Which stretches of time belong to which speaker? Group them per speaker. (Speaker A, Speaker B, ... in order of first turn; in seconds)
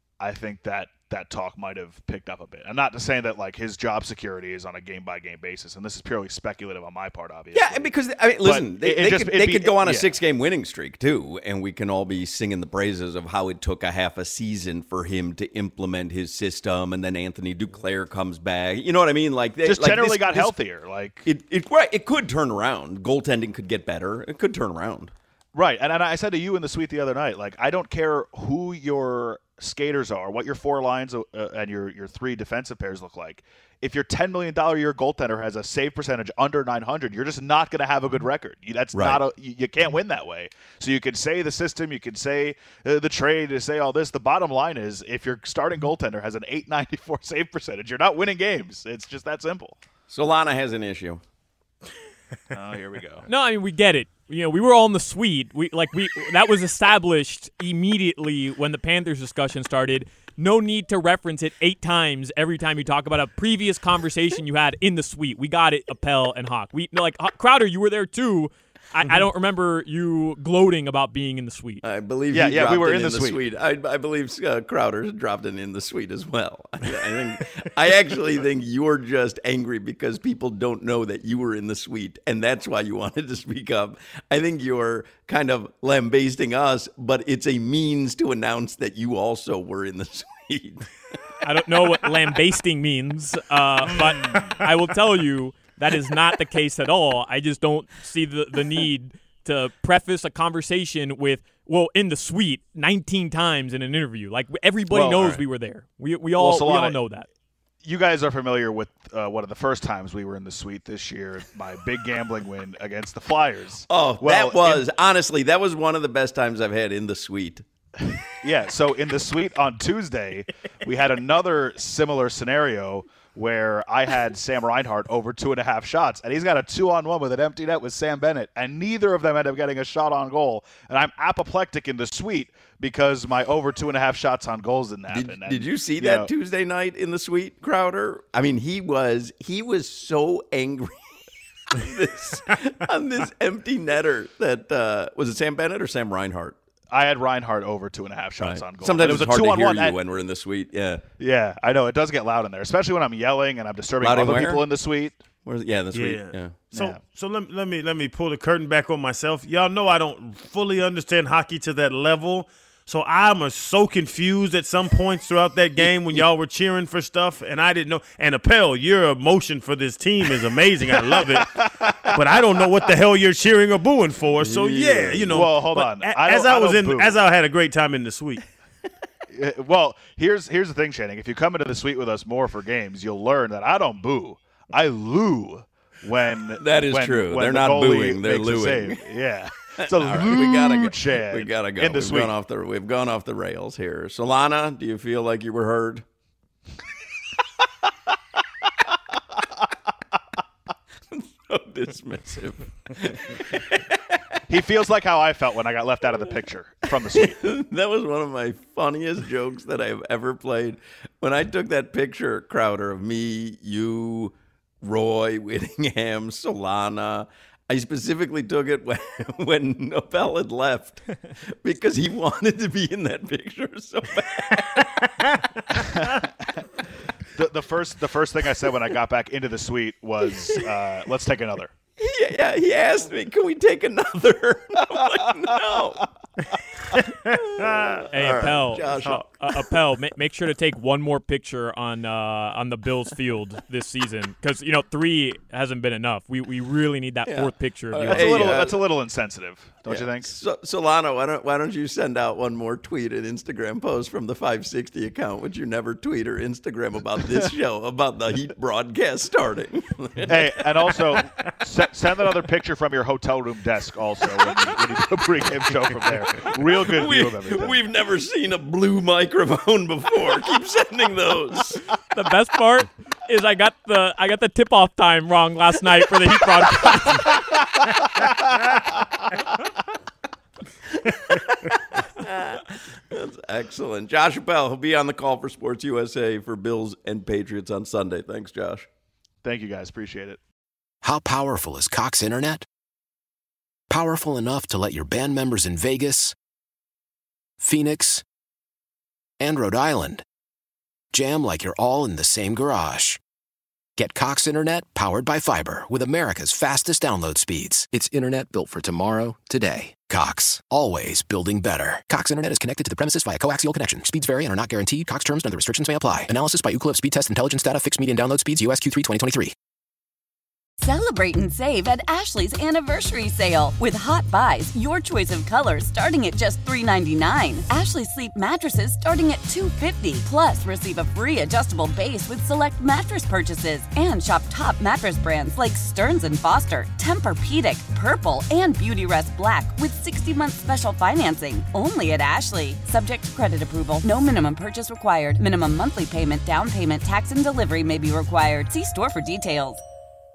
Speaker A: 0.2-10.2, 19.6-21.2, 25.5-49.8, 52.5-53.2, 72.3-73.4, 104.9-105.4, 106.4-107.0, 107.8-114.8, 118.3-136.3, 146.9-150.0, 151.2-155.2, 156.7-157.0, 171.3-172.2, 175.3-177.2, 179.3-192.3, 204.5-207.4, 225.9-226.3, 227.3-231.7, 248.0-250.3, 260.3-267.8, 289.4-290.4
Speaker B: 7.5-20.5, 21.2-25.1, 38.9-39.2, 50.1-51.2, 71.8-90.9, 113.9-117.6, 135.1-141.0, 141.7-146.6, 148.4-151.0, 154.0-154.7, 155.5-156.7, 165.8-166.2, 174.4-175.4, 186.6-189.2, 189.8-196.1, 201.1-204.2, 207.1-225.0, 232.0-236.1, 237.2-239.3, 247.2-248.9, 249.9-260.5, 266.9-271.9, 281.1-288.9
Speaker C: 53.2-71.8, 91.4-107.3, 238.1-248.4, 272.1-277.4
Speaker D: 155.9-171.5, 172.1-178.4
Speaker E: 291.0-292.6, 293.9-296.4, 297.6-298.2, 299.4-300.2, 301.1-303.2, 304.0-319.5
Speaker F: 320.8-349.8